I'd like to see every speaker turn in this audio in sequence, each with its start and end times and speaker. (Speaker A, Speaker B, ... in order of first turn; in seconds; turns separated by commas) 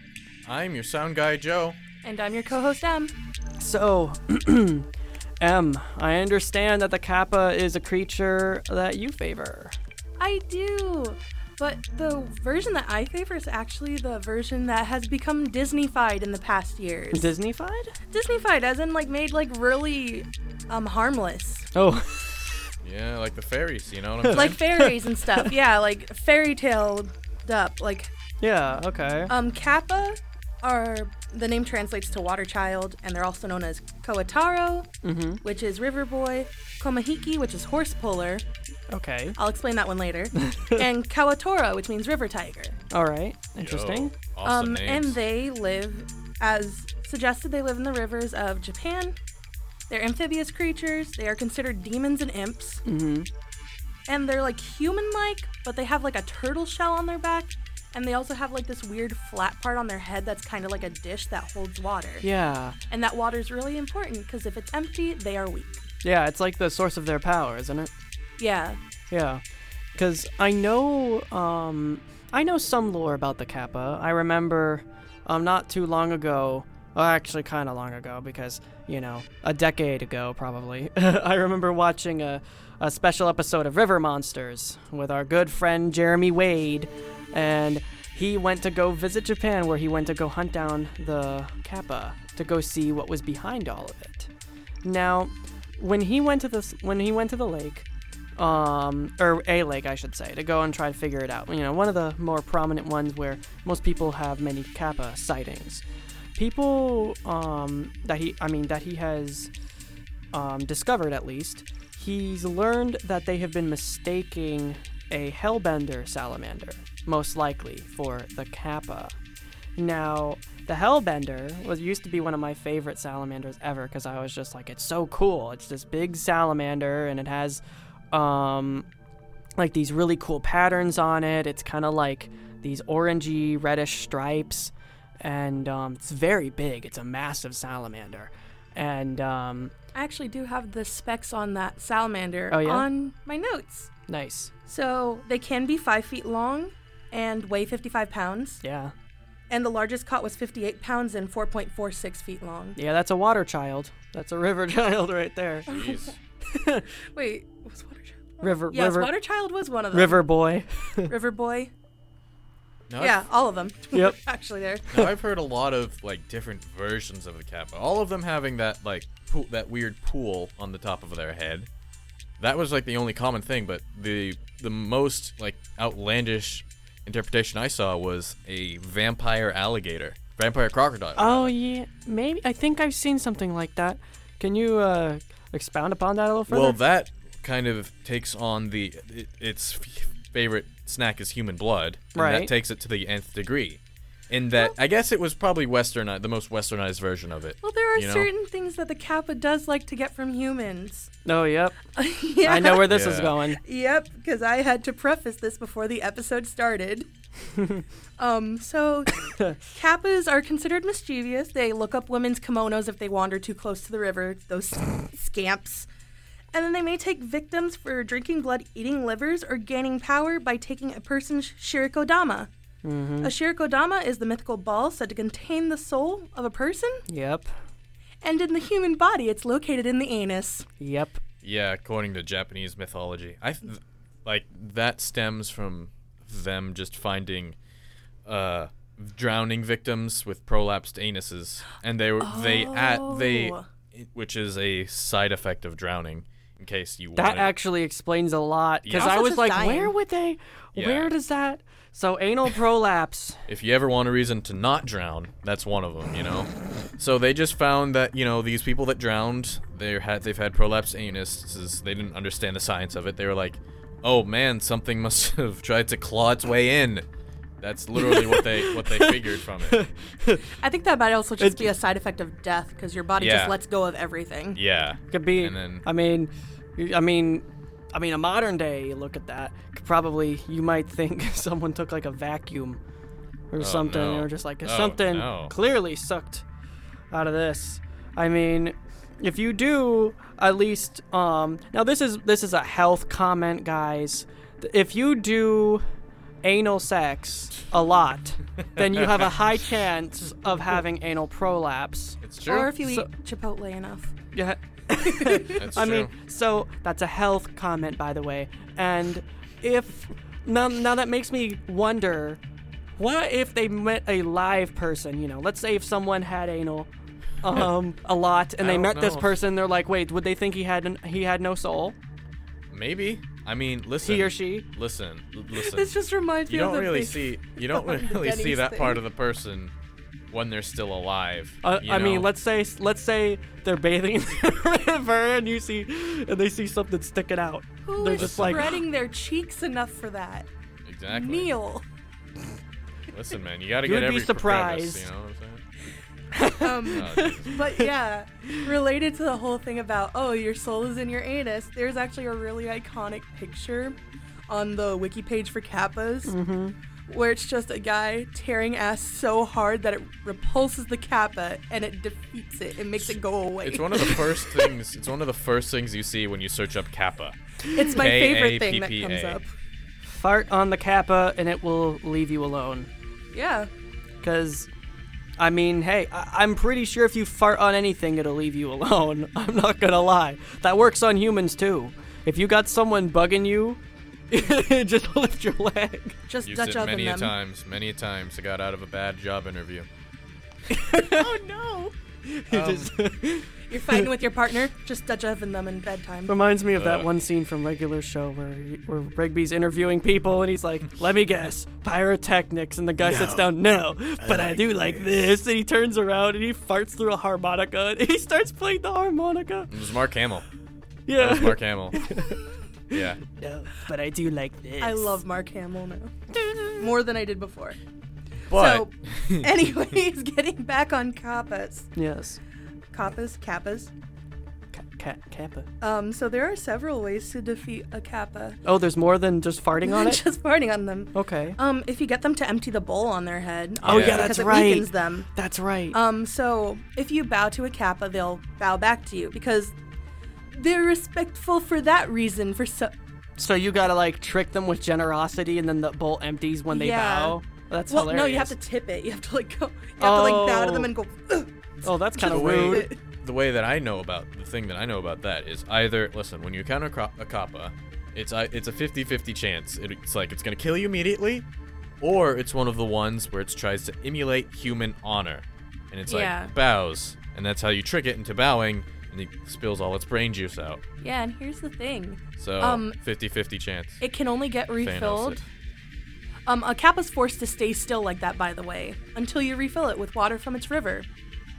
Speaker A: 0.5-1.8, Speaker B: 2.0-3.1, Speaker C: 3.6-4.9, Speaker C: 5.4-9.8, Speaker B: 10.2-17.3, Speaker C: 17.1-17.9, Speaker B: 18.1-21.7, Speaker C: 21.7-22.5, Speaker A: 22.8-24.6, Speaker C: 24.2-25.5, Speaker B: 24.3-28.1, Speaker C: 28.4-29.3, Speaker B: 29.3-34.9, Speaker C: 35.0-35.4, Speaker B: 35.4-38.4, Speaker C: 38.9-39.4, Speaker B: 39.4-42.8, Speaker C: 40.4-40.8, Speaker C: 42.9-44.1, Speaker A: 43.6-45.2, Speaker B: 44.4-49.1, Speaker B: 49.9-52.8, Speaker C: 52.8-53.3, Speaker B: 54.1-62.2, Speaker C: 62.2-62.8, Speaker B: 62.9-65.8, Speaker C: 66.0-67.9, Speaker B: 68.4-68.8, Speaker C: 69.1-69.4, Speaker C: 70.0-94.3, Speaker C: 94.8-97.9, Speaker C: 98.4-105.8, Speaker C: 106.3-109.5, Speaker C: 110.3-119.1, Speaker C: 119.8-127.6, Speaker C: 128.1-128.9, Speaker C: 129.6-139.7, Speaker B: 139.9-143.9, Speaker C: 142.5-142.8, Speaker C: 144.1-144.5, Speaker B: 144.7-148.6, Speaker C: 148.6-148.9, Speaker B: 149.5-152.8, Speaker C: 152.8-155.7, Speaker A: 155.7-156.2, Speaker B: 155.7-156.1, Speaker C: 156.5-156.8, Speaker B: 157.1-160.3, Speaker C: 158.4-159.1, Speaker C: 159.9-161.1, Speaker B: 161.1-161.7, Speaker A: 162.9-163.3, Speaker B: 163.0-165.0, Speaker A: 164.9-171.7, Speaker A: 172.4-181.5, Speaker C: 181.2-186.8, Speaker A: 186.5-198.3, Speaker C: 192.1-192.5, Speaker B: 197.6-201.1, Speaker C: 201.2-201.8, Speaker B: 201.9-202.9, Speaker C: 202.4-203.6, Speaker A: 202.8-203.3, Speaker B: 203.6-207.1, Speaker C: 207.6-207.8, Speaker B: 208.2-215.9, Speaker B: 216.5-222.5, Speaker C: 222.8-223.3, Speaker B: 223.2-227.0, Speaker C: 227.1-227.5, Speaker B: 228.2-230.7, Speaker C: 230.8-231.2, Speaker A: 231.4-237.6, Speaker A: 238.2-247.5, Speaker B: 242.2-243.6, Speaker C: 247.1-253.4, Speaker A: 248.8-249.2, Speaker B: 249.0-249.9, Speaker A: 250.7-251.1, Speaker A: 253.5-267.1, Speaker A: 267.6-269.8, Speaker C: 267.9-270.4, Speaker B: 270.5-274.6, Speaker C: 271.4-271.7, Speaker A: 273.2-273.5, Speaker A: 274.5-275.8, Speaker C: 275.1-282.8, Speaker C: 283.5-286.4, Speaker A: 283.6-285.5, Speaker C: 287.1-295.8, Speaker C: 296.4-302.2, Speaker A: 302.2-302.8, Speaker B: 302.4-304.1, Speaker C: 304.3-312.4, Speaker B: 305.2-305.5, Speaker A: 305.5-306.1, Speaker C: 313.0-316.9, Speaker C: 317.4-321.9, Speaker A: 318.6-319.4, Speaker A: 322.7-325.9, Speaker C: 324.0-324.7, Speaker B: 325.5-329.0, Speaker A: 326.5-329.7, Speaker A: 330.3-332.3, Speaker C: 331.6-338.8, Speaker B: 337.9-340.5, Speaker A: 338.1-338.8, Speaker A: 340.9-341.5, Speaker B: 341.1-341.8, Speaker A: 343.1-345.6, Speaker C: 343.8-345.1, Speaker C: 346.3-347.9, Speaker B: 346.6-353.9, Speaker A: 346.9-347.6, Speaker B: 354.5-356.3, Speaker C: 356.3-356.7, Speaker B: 357.1-364.7, Speaker A: 363.6-369.4, Speaker B: 367.7-369.5, Speaker C: 370.1-372.9, Speaker B: 373.3-373.7, Speaker C: 374.2-374.7, Speaker C: 375.4-383.8, Speaker C: 384.3-386.2, Speaker B: 386.3-387.3, Speaker A: 386.4-389.9, Speaker C: 390.7-391.3, Speaker B: 390.9-391.9, Speaker C: 392.2-394.1, Speaker A: 392.5-392.9, Speaker B: 393.7-396.3, Speaker C: 396.3-409.7, Speaker A: 396.7-397.1, Speaker A: 403.0-403.4, Speaker A: 404.2-405.1, Speaker A: 409.7-410.4, Speaker C: 411.1-415.2, Speaker A: 411.2-412.0, Speaker A: 412.9-413.2, Speaker B: 414.8-417.8, Speaker C: 416.4-416.8, Speaker B: 418.5-421.9, Speaker A: 418.5-419.5, Speaker C: 421.9-422.4, Speaker B: 422.9-423.9, Speaker C: 424.7-425.7, Speaker B: 425.8-428.6, Speaker C: 428.6-430.2, Speaker B: 429.8-435.3, Speaker C: 431.1-431.6, Speaker A: 433.8-434.3, Speaker C: 433.8-436.0, Speaker B: 435.9-439.7, Speaker B: 440.5-442.9, Speaker C: 443.4-448.5, Speaker B: 446.7-451.5, Speaker C: 450.0-450.9, Speaker C: 451.8-452.9, Speaker B: 452.1-453.0, Speaker A: 452.2-461.4, Speaker A: 462.0-470.8, Speaker B: 466.1-466.5, Speaker B: 471.0-472.9, Speaker A: 472.4-474.0, Speaker B: 474.0-475.4, Speaker A: 474.8-475.4, Speaker B: 476.5-481.1